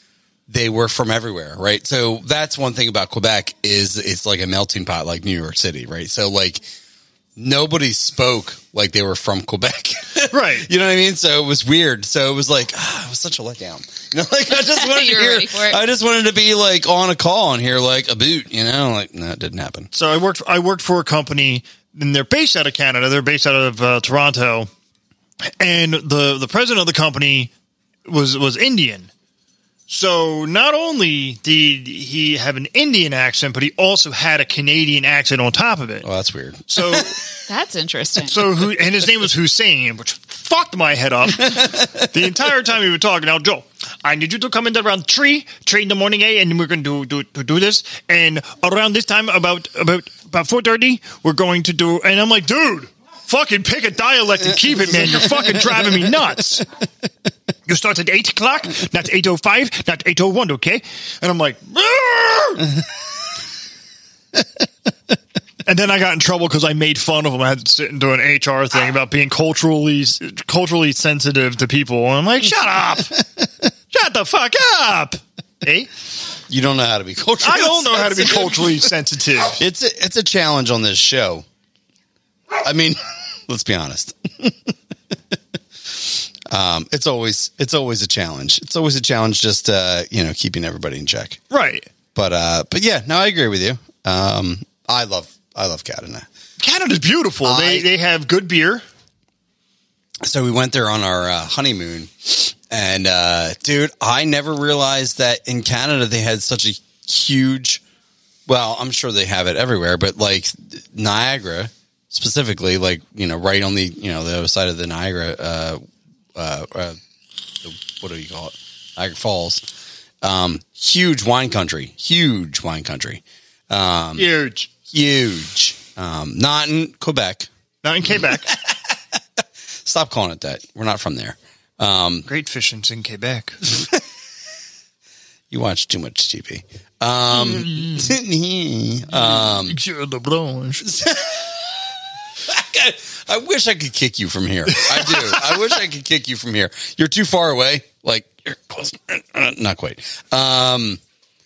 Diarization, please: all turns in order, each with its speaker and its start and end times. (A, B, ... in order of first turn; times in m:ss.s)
0:00.5-0:06.6 A
0:07.4-0:19.9 A
0:10.3-0:10.7 B
0:14.5-0:15.8 C
0:19.9-0:24.7 B
0:25.4-0:27.5 B
0:28.0-0:29.1 B
0:29.9-0:36.1 B
0:36.0-0:37.1 A
0:36.7-0:37.2 B
0:37.5-0:38.5 C
0:38.3-0:56.6 B
0:57.7-1:02.7 B
1:05.6-1:13.2 B
1:13.9-1:15.9 B
1:16.5-1:18.9 A
1:17.4-1:19.6 B
1:19.6-1:21.4 A
1:22.6-1:24.7 A
1:25.9-1:31.4 A
1:31.5-1:31.9 B
1:32.1-1:36.3 A
1:36.6-1:38.8 B
1:37.4-1:37.9 A
1:40.2-1:47.8 A
1:48.5-1:55.8 A
1:56.4-1:57.0 A
1:57.6-1:59.6 A
2:00.2-2:04.3 A
2:04.2-2:04.7 B
2:04.9-2:07.5 A
2:07.8-2:08.5 B
2:08.2-2:08.9 A
2:09.8-2:12.3 A
2:12.2-2:13.6 B
2:13.7-2:14.0 A
2:15.5-2:19.8 A
2:17.3-2:18.1 B
2:19.1-2:20.9 B
2:20.8-2:21.7 A
2:22.4-2:31.0 A
2:24.7-2:25.6 B